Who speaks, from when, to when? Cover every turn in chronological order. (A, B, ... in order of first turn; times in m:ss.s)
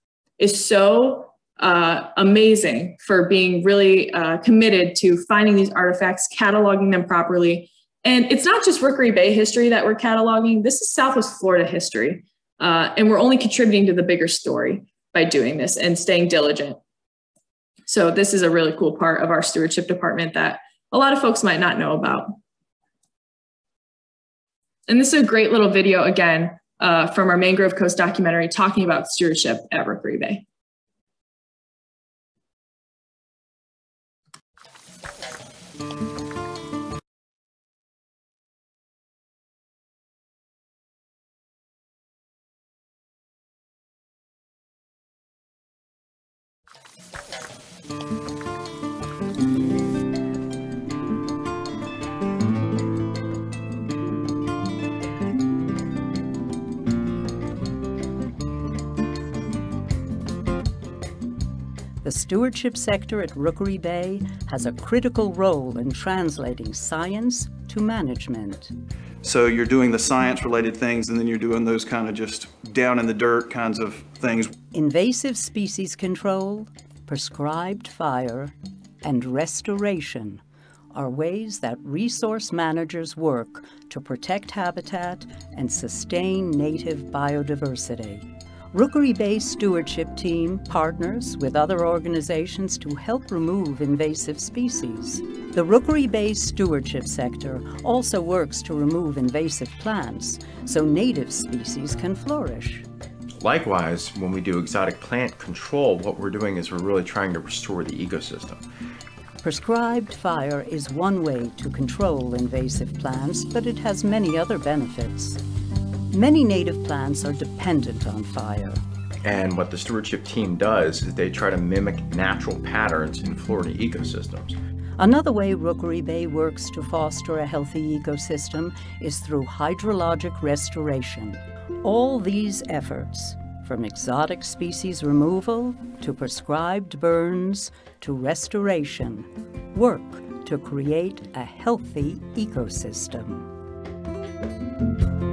0:00.4-0:16.8 A
0:17.9-0:22.4 A
0:24.9-0:30.4 A
1:02.0-1:08.7 B
1:09.2-1:14.6 C
1:14.7-1:20.4 B
1:20.9-1:42.9 B
1:43.4-1:48.6 D
1:49.4-1:55.4 B
1:56.1-1:58.8 B
1:59.2-2:04.6 D
2:05.0-2:23.5 B